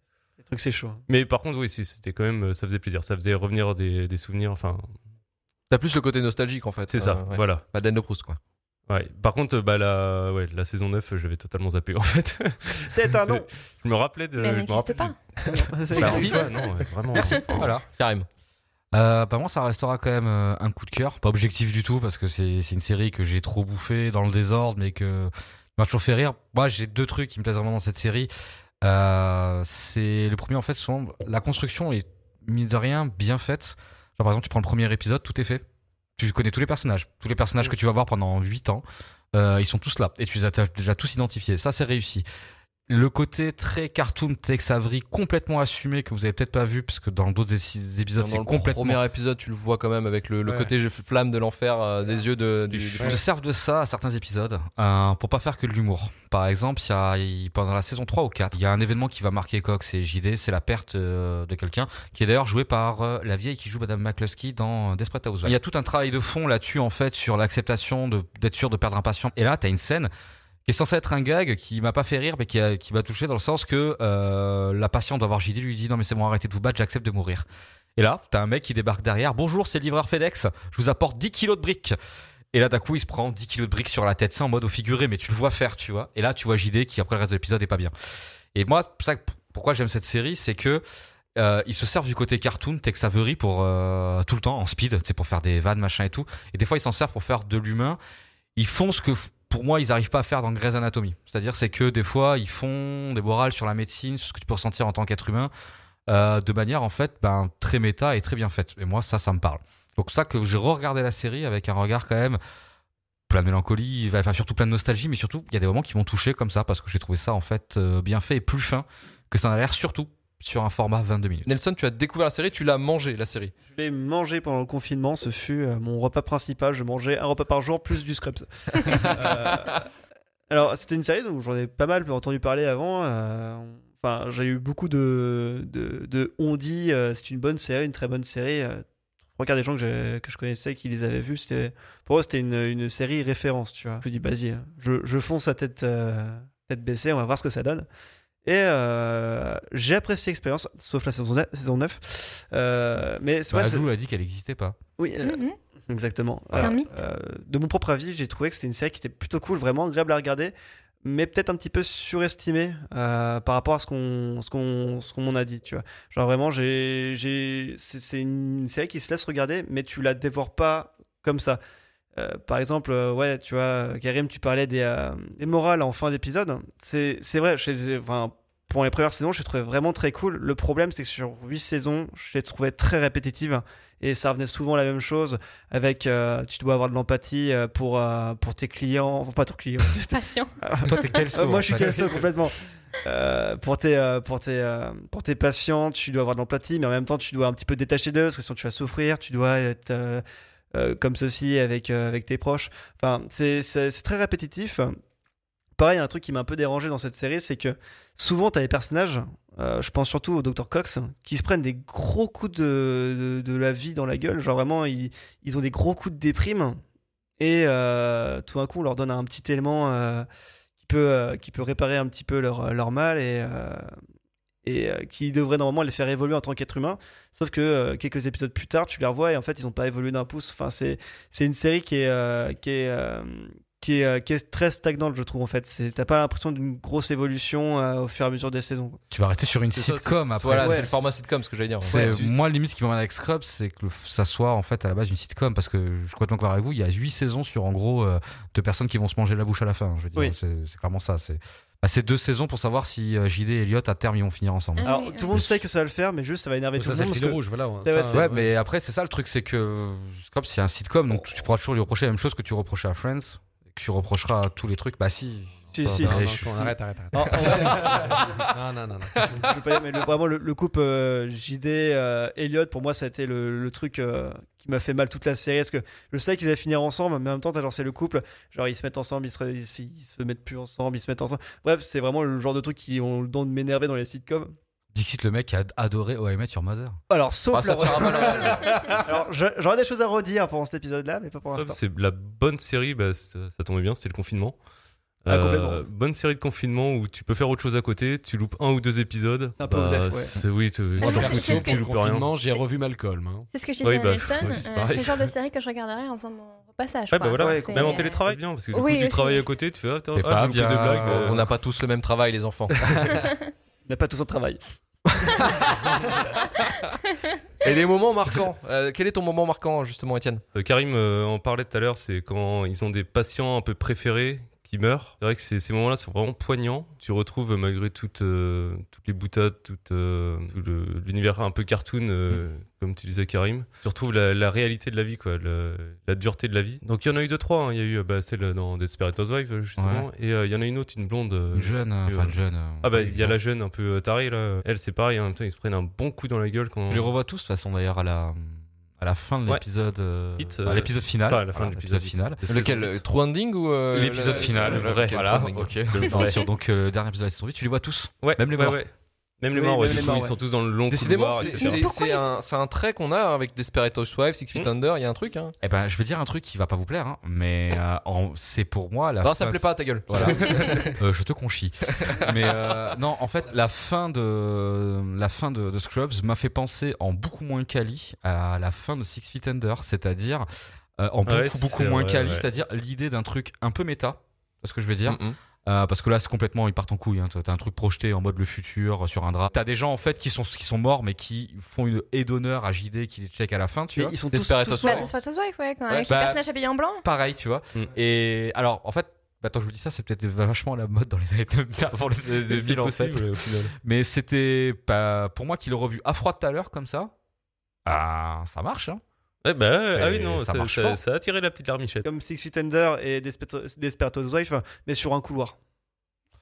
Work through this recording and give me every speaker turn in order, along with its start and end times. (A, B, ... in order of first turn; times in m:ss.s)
0:00.4-0:01.0 A
0:01.1-0:05.0 B
0:05.7-0:08.4 C
0:06.9-0:07.6 B
0:08.9-0:17.7 B
0:12.9-0:13.5 A
0:14.4-0:15.2 D
0:15.5-0:16.6 A
0:16.0-0:16.3 E
0:17.2-0:17.8 E
0:17.9-0:18.3 C
0:18.9-0:28.3 E
0:28.8-0:35.6 E
0:36.2-0:42.3 E
0:42.9-0:49.0 E
0:48.2-0:53.2 C
0:50.5-0:50.7 F
0:52.7-1:10.1 E
1:10.7-1:22.0 E
1:22.5-1:27.9 E
1:28.5-1:30.8 E
1:31.4-1:38.0 E
1:38.6-1:45.5 E
1:46.1-1:52.4 E
1:53.3-2:01.5 E
2:01.5-2:03.5 C
2:03.7-2:09.9 A
2:10.5-2:18.8 A
2:19.4-2:27.9 A
2:28.4-2:33.9 A
2:33.5-2:34.8 E
2:35.0-2:51.6 A
2:35.2-2:35.6 D
2:36.6-2:36.9 D
2:52.2-3:20.2 A
3:10.1-3:11.2 D
3:10.8-3:12.3 E
3:20.7-3:25.0 A
3:25.8-3:36.8 A
3:37.4-3:40.3 A
3:40.8-3:43.9 A
3:44.6-3:59.0 A
3:59.1-4:00.9 E
3:59.8-4:00.5 B
4:00.4-4:02.3 C
4:00.6-4:00.9 A
4:01.9-4:02.3 A
4:01.9-4:15.6 E
4:14.8-4:15.3 D
4:14.8-4:18.2 A
4:16.8-4:18.5 F
4:18.1-4:26.6 E
4:25.7-4:28.4 A
4:25.8-4:29.5 F
4:29.4-4:44.6 A
4:44.9-4:47.0 E
4:47.1-4:51.8 A
4:47.5-4:49.0 C
4:51.6-4:54.6 B
4:55.2-5:02.3 B
4:55.3-4:55.9 A
4:59.6-5:00.4 A
5:01.0-5:01.9 D
5:01.0-5:03.5 F
5:03.5-5:09.5 D
5:03.8-5:05.1 B
5:04.8-5:05.0 F
5:07.1-5:11.5 B
5:07.4-5:08.4 A
5:10.1-5:11.4 E
5:11.0-5:13.2 C
5:13.9-5:16.1 A
5:17.6-5:20.4 C
5:20.6-5:47.1 B
5:39.8-5:40.1 E
5:41.5-5:43.4 E
5:46.9-5:52.9 E
5:50.4-5:52.9 B
5:52.5-5:56.3 C
5:53.9-5:58.8 E
5:54.3-5:56.5 B
5:58.2-6:01.9 B
5:59.5-6:00.4 A
6:00.9-6:05.6 C
6:01.4-6:02.3 D
6:05.6-6:20.5 E
6:09.2-6:11.0 C
6:11.9-6:12.8 C
6:21.0-6:34.2 E
6:21.3-6:22.4 B
6:25.1-6:25.4 C
6:34.0-6:35.1 A
6:34.3-6:35.1 C
6:34.8-6:37.0 D
6:36.1-6:36.4 E
6:37.0-6:47.1 E
6:41.9-6:43.7 B
6:47.8-6:49.0 E
6:49.4-6:52.0 B
6:49.9-6:51.0 E
6:52.0-6:55.6 A